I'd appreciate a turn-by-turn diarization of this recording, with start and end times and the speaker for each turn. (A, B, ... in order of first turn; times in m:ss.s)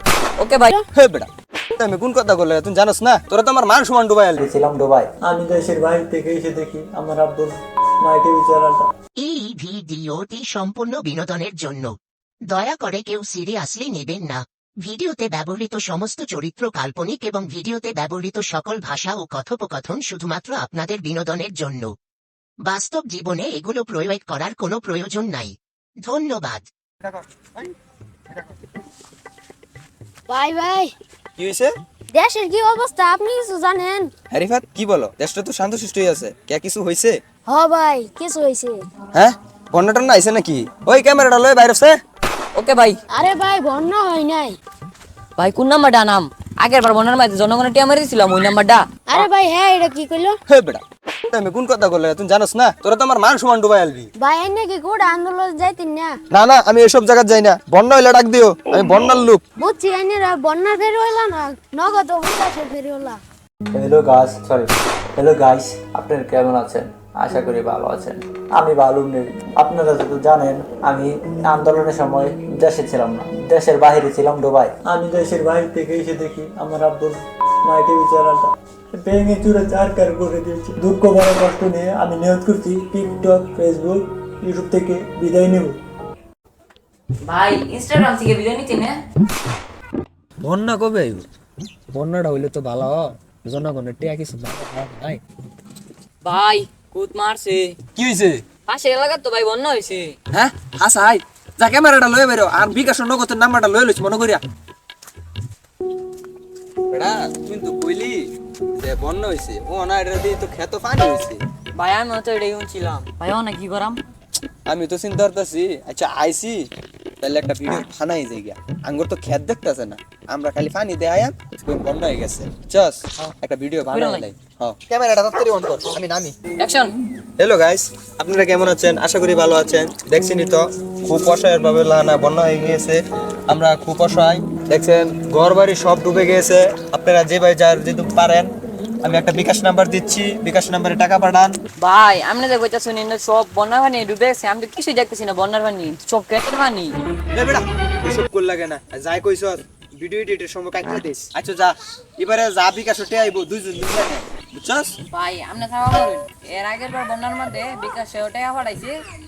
0:00.4-0:00.7 A
0:00.9-0:04.4 B
0:04.4-0:07.5 C
0:08.4-0:08.8 C
0:09.2-0:11.9 D
0:12.5-0:21.9 D
0:22.6-0:26.6 D
0:27.0-0:27.7 B
0:30.3-0:30.9 E
0:31.4-0:31.7 B
0:32.1-0:34.1 E
0:34.3-0:37.2 B
0:37.5-0:38.9 E
0:39.1-0:42.0 B
0:42.6-0:43.0 A
0:43.1-0:44.6 E
0:45.4-0:48.8 A
0:49.1-0:50.4 E
0:50.5-0:54.1 B
0:54.2-0:56.2 E
0:56.3-0:59.4 B
0:59.6-1:03.2 E
1:03.7-1:17.1 C
1:17.7-1:25.7 C
1:27.2-1:29.0 A
1:30.4-1:31.3 B
1:31.9-1:35.2 B
1:36.2-1:37.8 A
1:38.0-1:38.4 B
1:38.7-1:40.2 A
1:40.3-1:44.4 B
1:46.9-1:51.4 B
1:51.8-1:54.0 A
1:54.7-1:56.6 B
1:57.2-2:06.4 B
2:03.9-2:04.3 A
2:06.6-2:06.9 A
2:07.4-2:21.6 B
2:21.8-2:27.0 A
2:27.3-2:35.0 B
2:35.1-2:39.0 A